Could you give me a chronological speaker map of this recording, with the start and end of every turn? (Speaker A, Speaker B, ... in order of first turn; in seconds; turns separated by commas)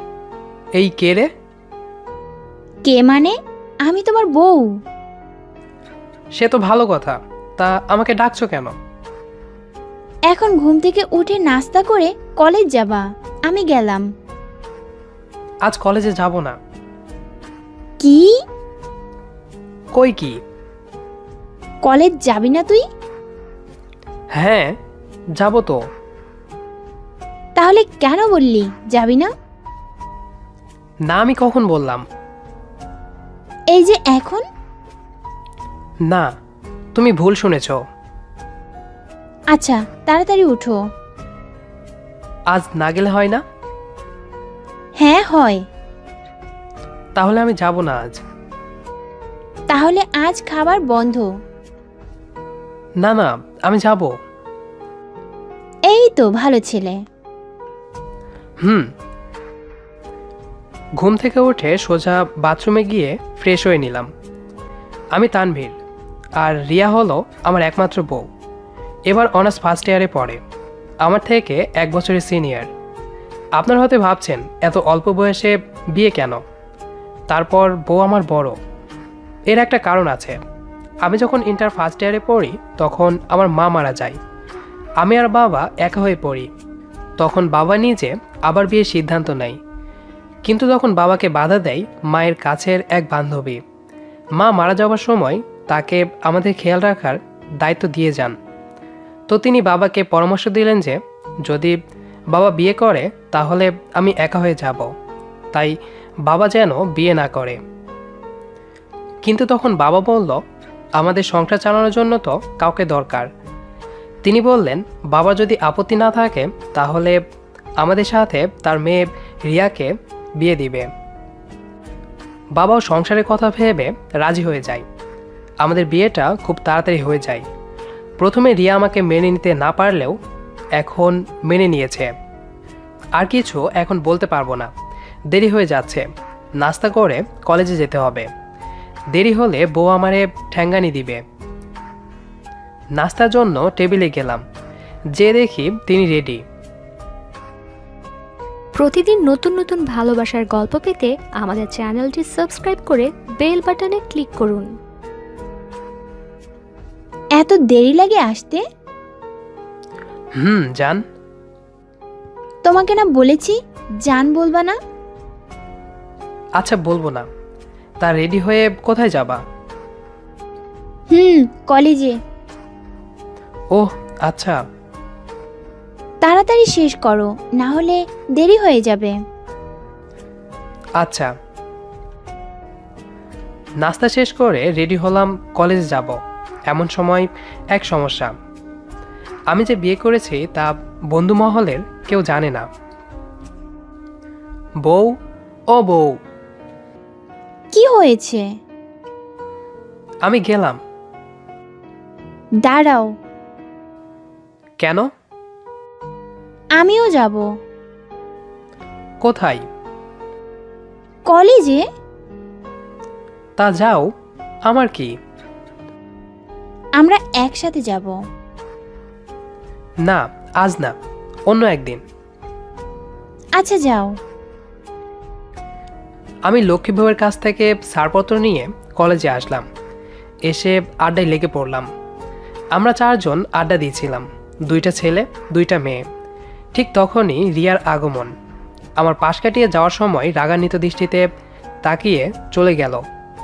Speaker A: 0.8-1.3, Speaker B: 2.9-3.3, Speaker B: 3.9-4.7, Speaker A: 6.4-8.8, Speaker B: 10.3-14.0, Speaker A: 15.7-16.6, Speaker B: 18.0-18.3, Speaker A: 19.9-20.4, Speaker B: 21.8-22.8, Speaker A: 24.4-24.7, Speaker A: 25.4-25.8, Speaker B: 27.6-29.3, Speaker A: 31.1-32.0, Speaker B: 33.7-34.4, Speaker A: 37.0-37.8, Speaker B: 39.5-40.8, Speaker A: 42.5-43.4, Speaker B: 45.0-45.6, Speaker A: 47.2-48.2, Speaker B: 49.7-51.3, Speaker A: 53.0-54.1, Speaker B: 55.9-57.0, Speaker A: 61.0-64.1, Speaker A: 65.2-65.7, Speaker A: 66.4-68.3, Speaker A: 69.1-70.4, Speaker A: 71.0-72.7, Speaker A: 73.6-76.4, Speaker A: 77.3-78.5, Speaker A: 79.5-80.4, Speaker A: 81.0-84.2, Speaker A: 85.0-86.5, Speaker A: 87.2-89.6, Speaker A: 90.5-93.6, Speaker A: 94.4-98.3, Speaker A: 99.3-101.8, Speaker A: 102.3-104.9, Speaker A: 106.3-107.6, Speaker A: 109.2-110.4, Speaker A: 111.0-113.3, Speaker A: 114.2-117.2, Speaker A: 117.8-120.9, Speaker A: 122.6-124.8, Speaker A: 125.6-127.4, Speaker A: 128.2-130.1, Speaker A: 130.8-132.1, Speaker A: 133.2-134.7, Speaker A: 135.3-136.1, Speaker A: 136.6-138.3, Speaker A: 139.1-141.2, Speaker A: 143.0-144.4, Speaker A: 145.2-146.4, Speaker C: 148.8-154.7, Speaker B: 157.4-158.6, Speaker A: 160.4-161.0, Speaker B: 162.6-164.8, Speaker A: 166.6-167.3, Speaker A: 168.0-169.4, Speaker B: 171.1-172.1, Speaker A: 173.7-174.6, Speaker B: 176.2-179.2, Speaker A: 181.0-181.3, Speaker A: 183.8-186.2, Speaker A: 186.7-188.3, Speaker A: 189.5-192.7, Speaker A: 194.8-195.1, Speaker A: 195.7-196.1, Speaker B: 197.7-198.4, Speaker A: 200.2-200.8, Speaker B: 202.6-203.1, Speaker A: 204.8-205.1, Speaker B: 206.8-207.4, Speaker A: 209.2-209.6, Speaker B: 211.3-211.8, Speaker A: 213.6-214.1, Speaker A: 214.7-215.1, Speaker B: 217.0-218.1, Speaker A: 220.1-220.9, Speaker A: 221.5-222.0, Speaker B: 223.6-224.1, Speaker A: 226.5-229.7, Speaker A: 230.5-231.9, Speaker A: 232.8-236.0, Speaker A: 236.8-238.3, Speaker A: 239.0-241.3, Speaker A: 241.8-243.0